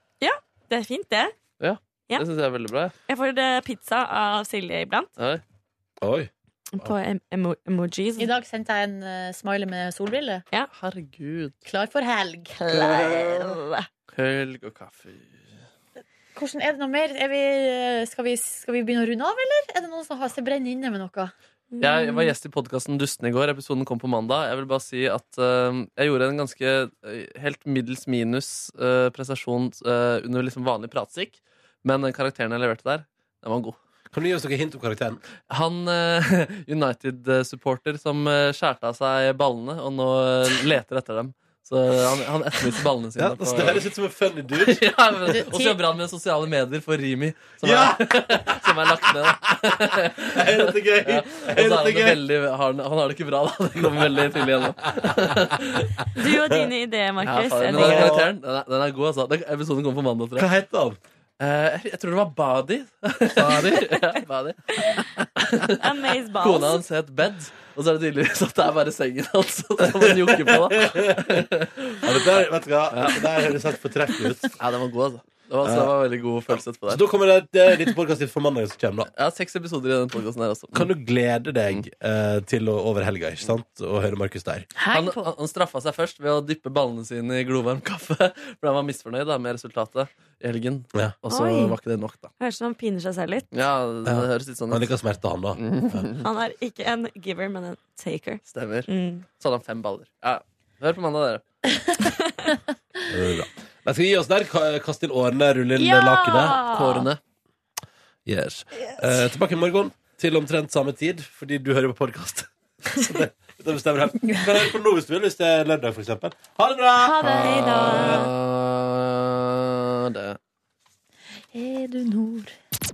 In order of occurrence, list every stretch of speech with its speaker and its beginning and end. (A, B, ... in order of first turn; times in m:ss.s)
0:00.2-0:01.4 A
0:01.6-0:02.9 B
0:03.1-0:05.1 A
0:06.0-0:06.3 C
0:06.7-0:08.3 A
0:08.2-0:10.4 D
0:10.7-0:11.6 B
0:11.6-0:12.6 D
0:12.6-0:13.9 A
0:12.7-0:13.4 C
0:14.1-0:15.5 B
0:16.3-0:21.3 D
0:21.7-0:22.3 A
0:21.8-0:33.8 B
0:34.1-0:35.2 C
0:35.5-0:43.9 B
0:43.2-0:44.9 C
0:44.6-0:56.0 B
0:45.2-0:45.8 D
0:47.6-0:52.2 C
0:54.9-0:55.5 C
0:56.1-0:58.2 A
0:57.2-1:00.5 B
0:57.7-0:58.3 C
1:00.4-1:01.0 C
1:01.4-1:12.2 B
1:03.4-1:03.7 C
1:05.8-1:06.8 A
1:09.8-1:14.6 C
1:12.9-1:13.4 B
1:14.6-1:17.0 B
1:15.6-1:15.9 C
1:16.5-1:19.1 C
1:19.2-1:20.9 B
1:20.7-1:24.7 C
1:24.8-1:25.2 D
1:24.9-1:32.3 B
1:31.3-1:31.8 A
1:32.4-1:33.5 A
1:33.5-1:34.9 B
1:34.0-1:36.0 C
1:35.6-1:36.2 B
1:36.2-1:39.3 A
1:38.4-1:41.4 B
1:43.1-1:46.6 C
1:45.8-1:47.1 D
1:46.6-1:47.2 B
1:48.2-1:58.2 C
1:57.0-1:57.8 D
1:57.4-1:58.3 A
1:57.4-2:00.4 B
2:01.5-2:02.5 D